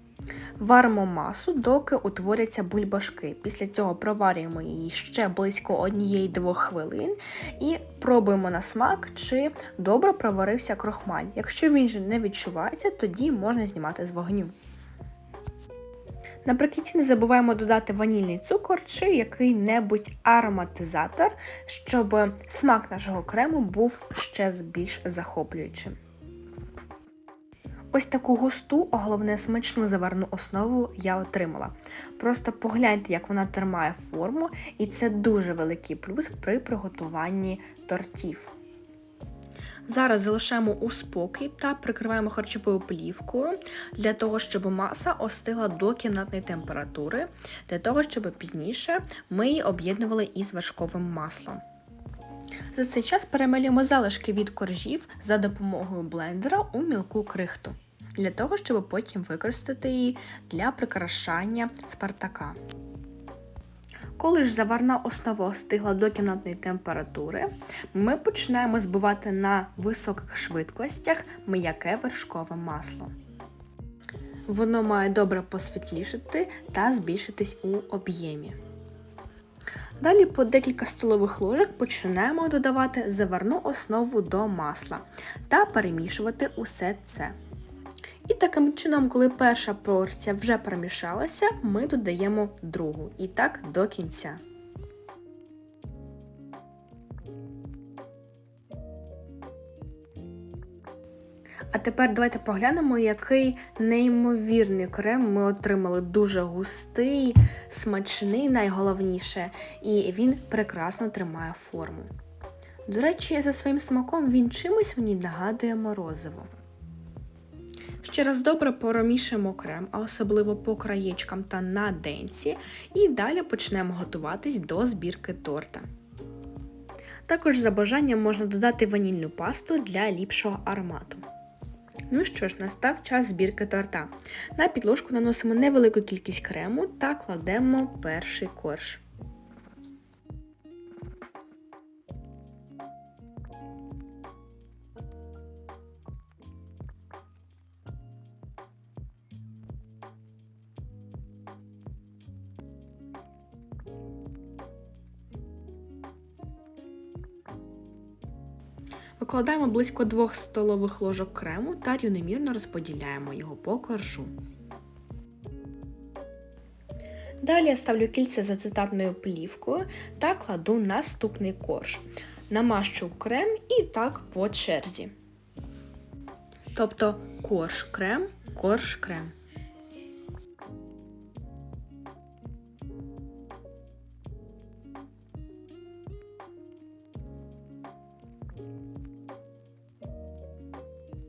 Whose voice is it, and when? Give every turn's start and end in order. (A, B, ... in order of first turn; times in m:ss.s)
0:00.6-0:14.5 A
0:16.4-0:25.9 A
0:27.9-0:38.5 A
0:39.9-0:51.6 A
0:52.7-1:02.6 A
1:04.2-1:13.1 A
1:14.5-1:18.6 A
1:20.0-1:27.3 A
1:28.2-1:34.4 A
1:41.7-1:52.1 A
1:52.8-1:56.5 A
1:58.0-2:05.8 A
2:07.2-2:11.2 A
2:12.1-2:19.0 A
2:39.2-2:44.3 A
2:47.4-2:55.1 A
2:56.7-2:59.3 A